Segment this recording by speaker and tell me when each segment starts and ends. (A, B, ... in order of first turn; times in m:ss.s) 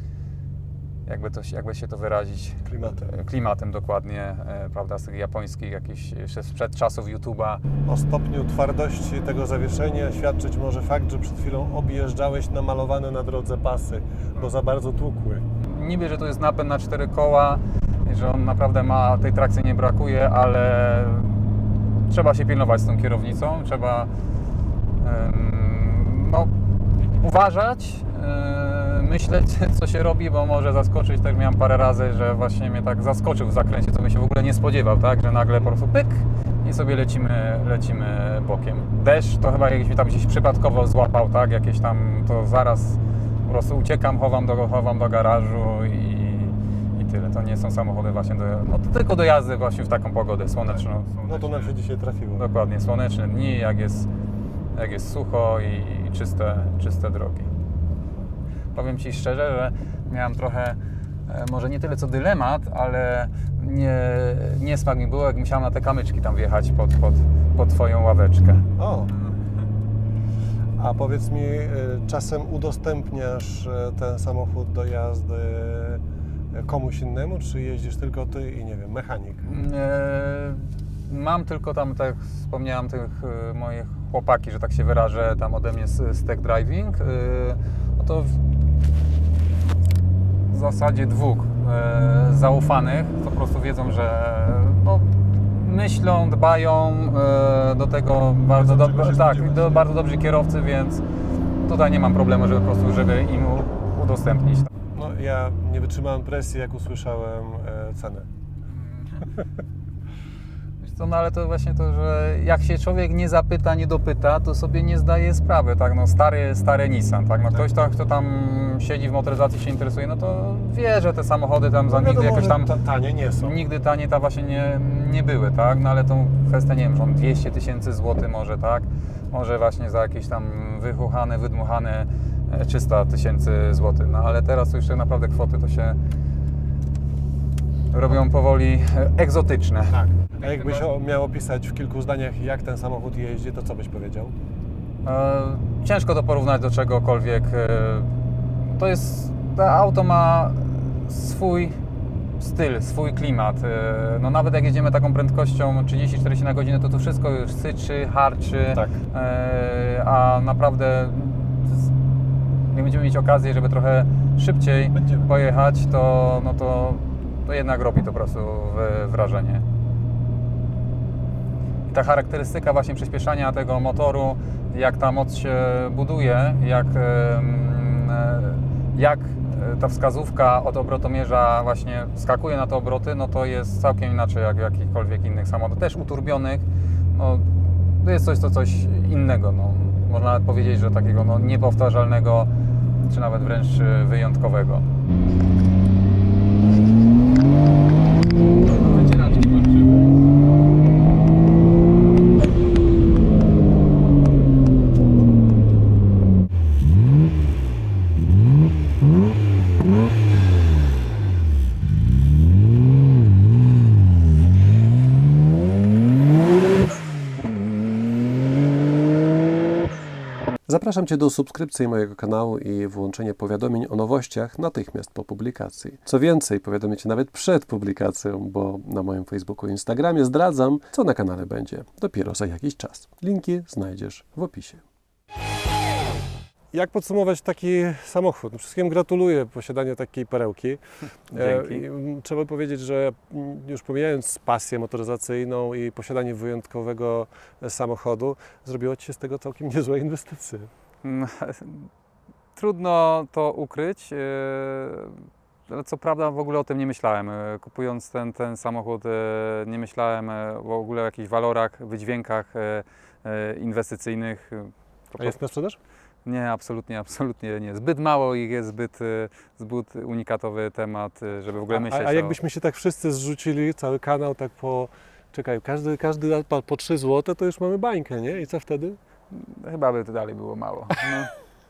0:01.0-0:07.6 A
0:02.6-0:03.1 B
0:07.8-0:15.4 B
0:15.6-0:24.1 A
0:25.0-0:26.5 A
0:27.2-0:51.7 A
0:51.3-0:52.4 B
0:52.4-0:54.1 A
0:54.7-0:57.5 A
0:58.7-1:08.7 A
1:08.8-1:09.1 B
1:10.8-1:16.0 B
1:16.5-1:19.4 B
1:19.4-1:28.4 A
1:30.5-1:41.0 A
1:38.6-1:39.9 B
1:41.6-1:44.7 A
1:44.9-1:48.3 B
1:49.0-1:49.3 A
1:50.8-2:02.7 A
2:01.9-2:03.6 B
2:03.4-2:16.0 A
2:17.9-2:20.8 A
2:19.9-2:24.3 B
2:25.0-2:31.8 A
2:32.4-2:41.9 A
2:42.7-2:49.6 A
2:45.0-2:45.2 B
2:51.9-3:14.9 A
3:18.7-3:20.0 A
3:40.7-3:54.8 B
3:56.7-4:00.8 B
4:01.3-4:10.7 B
4:01.3-4:01.8 A
4:11.0-4:11.9 A
4:12.5-4:25.4 A
4:25.2-4:25.8 B
4:26.2-4:32.4 A
4:31.7-4:39.0 B
4:39.3-4:41.3 A